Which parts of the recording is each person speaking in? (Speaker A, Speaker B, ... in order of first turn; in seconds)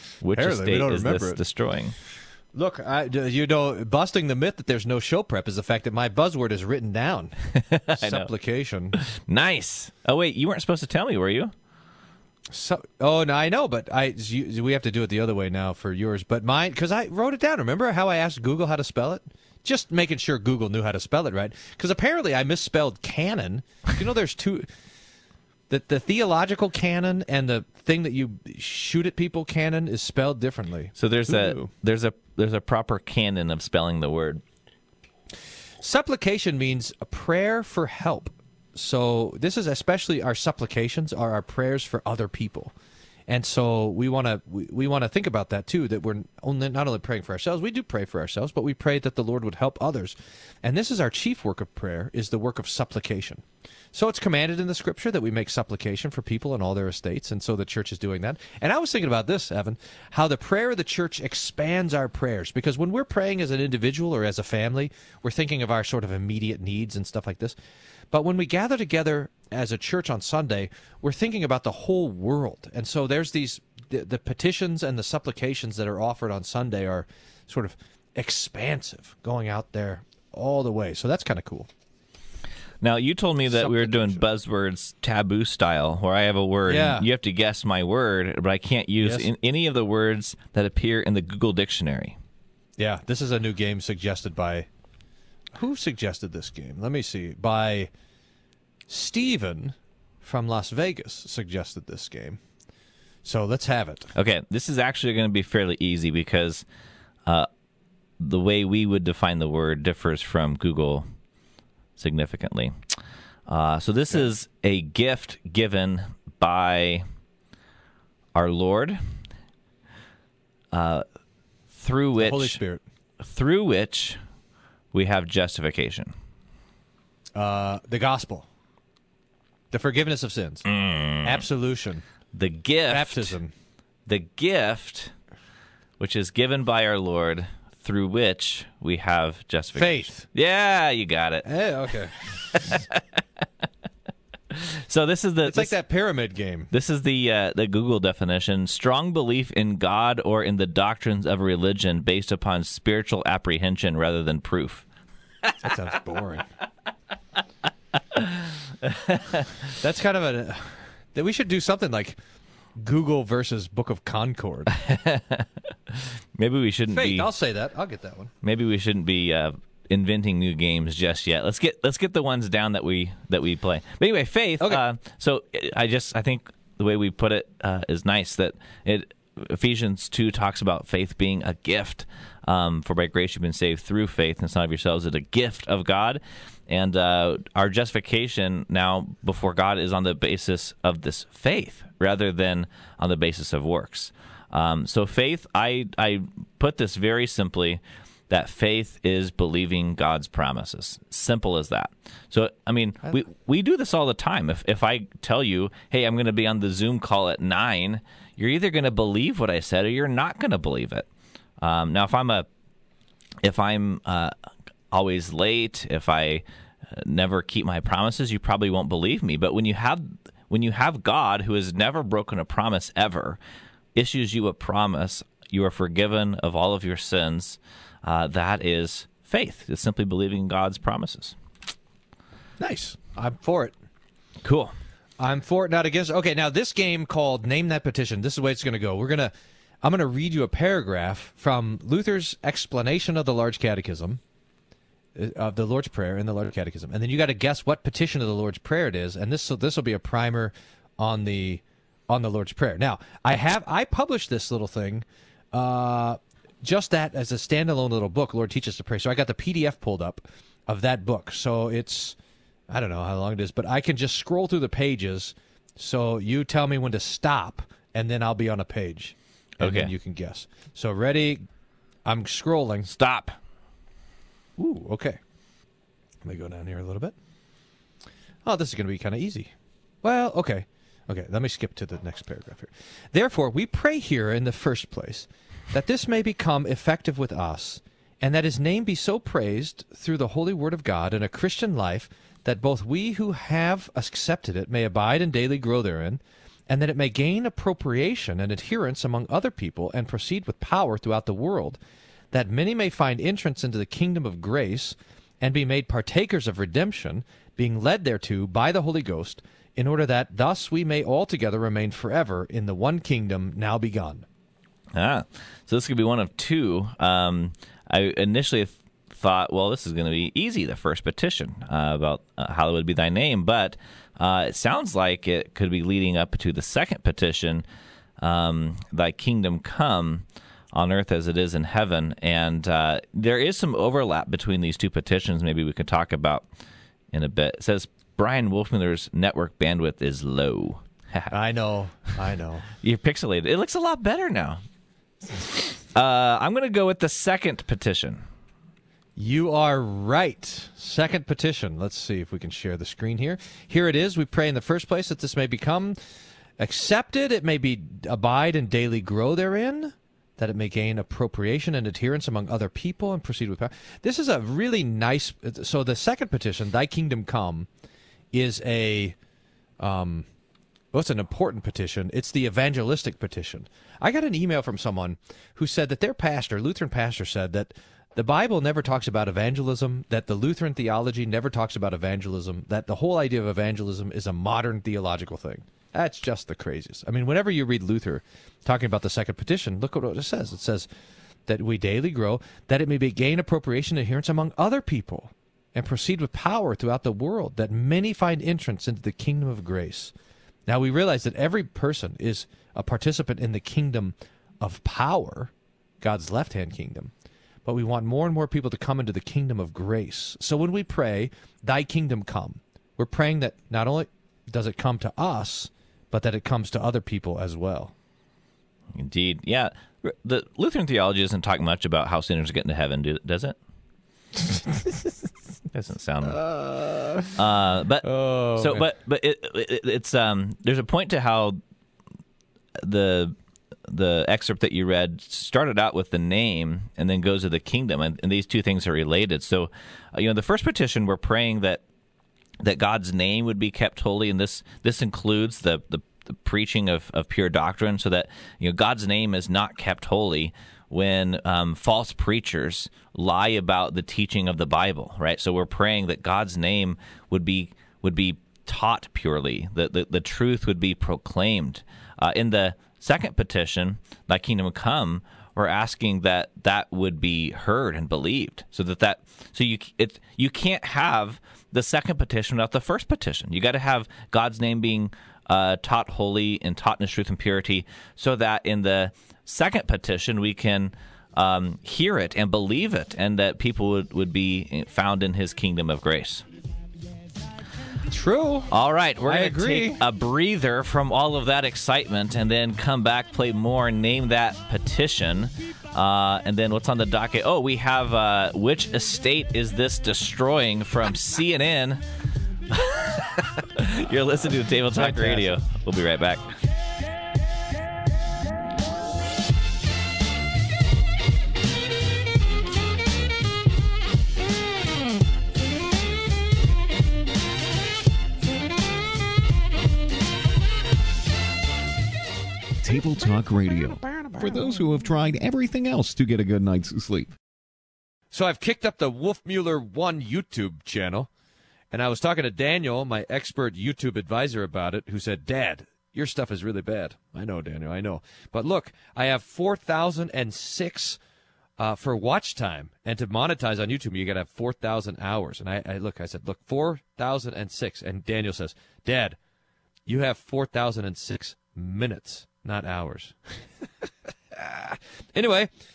Speaker A: 0.2-2.0, 7.6-8.3, 9.0-11.5, 31.0-34.4, 82.8-92.2, 104.1-106.7, 108.2-111.1, 112.0-112.8, 113.5-117.0, 118.3-119.0, 120.7-121.0, 121.7-122.6, 123.2-124.2, 124.9-126.1, 130.7-131.4, 132.3-133.4, 134.1-135.1, 136.0-141.5, 142.5-143.2, 144.5-145.8, 146.7-154.8, 155.5-155.7, 158.1-159.5, 164.7-167.3, 168.4-211.1, 211.6-212.5, 213.4-214.3, 214.9-223.4, 223.9-231.4, 234.4-234.8, 269.6-269.9, 272.9-273.4, 314.9-327.6, 328.2-336.5, 337.1-341.3, 342.8-344.6, 345.9-348.2, 418.9-423.6, 425.7-426.5, 427.4-431.6, 432.8-433.4, 433.9-441.8, 442.6-486.4, 488.7-502.0, 502.7-506.5
Speaker B: 0.3-1.4, 2.5-7.3, 7.9-9.0, 12.5-24.7, 25.7-31.7, 35.8-42.7, 43.3-67.6, 68.1-81.7, 83.5-84.2, 86.7-87.1, 89.0-89.3, 92.8-94.7, 95.5-97.9, 98.9-102.4, 103.2-104.1, 122.2-122.8, 127.4-128.5, 129.7-130.7, 131.2-132.0, 132.9-133.5, 139.8-140.3, 141.4-142.4, 145.4-146.7, 155.6-156.4, 159.8-162.2, 162.8-164.8, 166.9-168.3, 232.6-233.8, 235.2-244.2, 245.2-262.2, 262.7-271.4, 272.1-272.9, 274.6-275.2, 276.2-277.1, 278.4-279.5, 280.0-301.8, 302.3-314.2, 341.3-342.7, 349.2-356.0, 356.6-367.7, 368.3-369.2, 369.8-370.3, 370.9-390.9, 391.5-400.1, 400.7-407.1, 407.6-417.9, 426.2-427.4, 428.0-428.9, 488.1-488.7, 489.2-490.0, 504.9-505.6, 528.3-531.3, 531.9-541.2, 541.8-549.4, 550.1-553.4, 554.5-555.7
Speaker C: 522.8-527.4